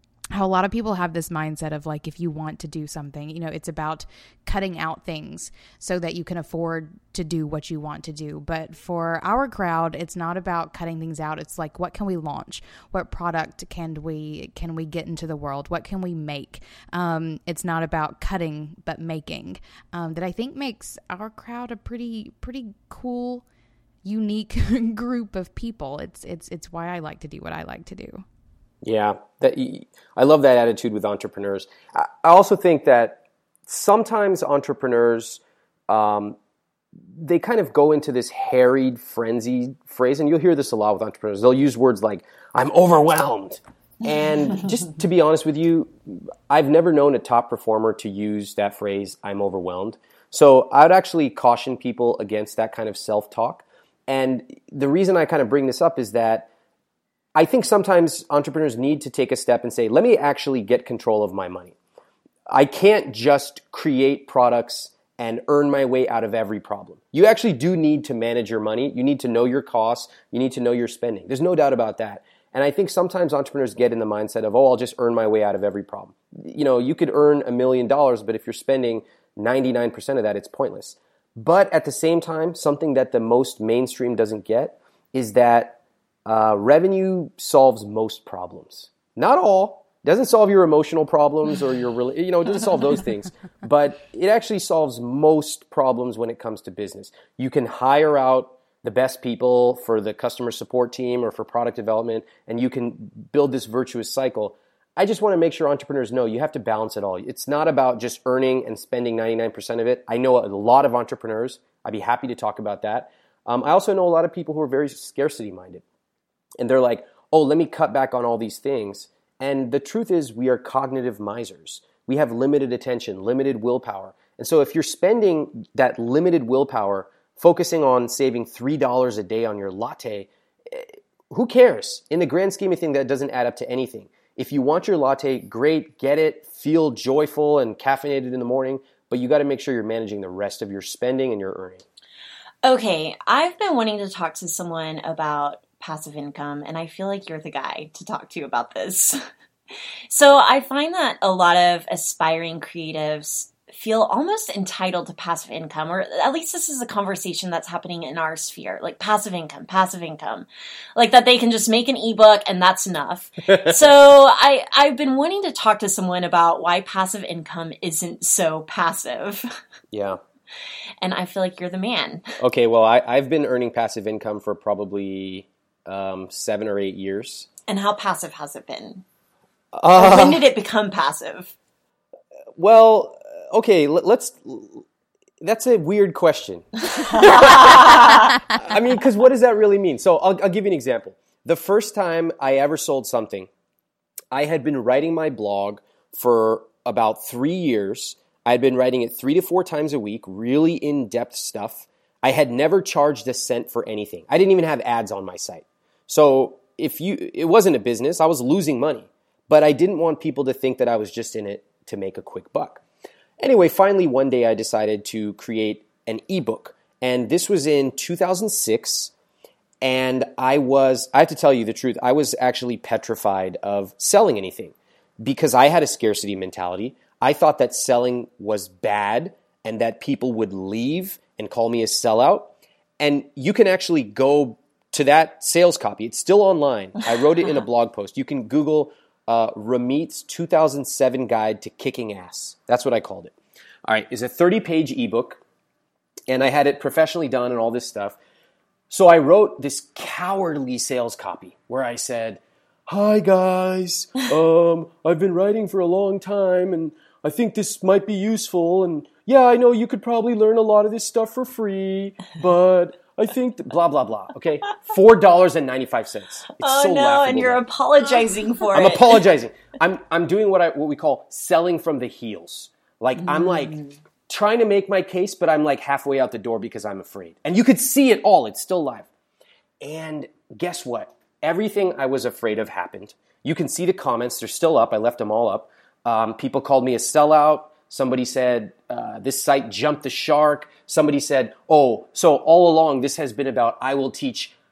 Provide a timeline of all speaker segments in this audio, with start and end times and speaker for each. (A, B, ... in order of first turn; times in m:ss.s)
0:00.3-0:23.4 A
0:24.0-0:28.2 A
0:28.8-0:36.4 B
0:37.1-0:56.5 B
0:57.3-1:01.8 B
1:02.5-1:55.8 B
1:56.6-2:21.8 B
2:22.6-2:29.2 C
2:30.1-2:49.4 C
2:43.5-2:43.8 B
2:49.9-2:50.2 B
2:51.0-2:52.3 C
2:52.4-2:57.5 B
2:57.7-2:59.0 C
2:59.7-3:00.4 B
3:00.0-3:01.5 C
3:02.6-3:04.8 B
3:05.4-3:13.5 B
3:07.0-3:08.4 C
3:14.3-3:32.8 B
3:33.4-3:39.1 B
3:39.8-4:03.3 B
4:03.9-4:05.4 B
4:06.3-4:08.2 B
4:08.9-4:27.6 B
4:26.6-4:29.2 C
4:28.7-4:39.1 B
4:33.2-4:33.9 C
4:39.8-4:54.5 B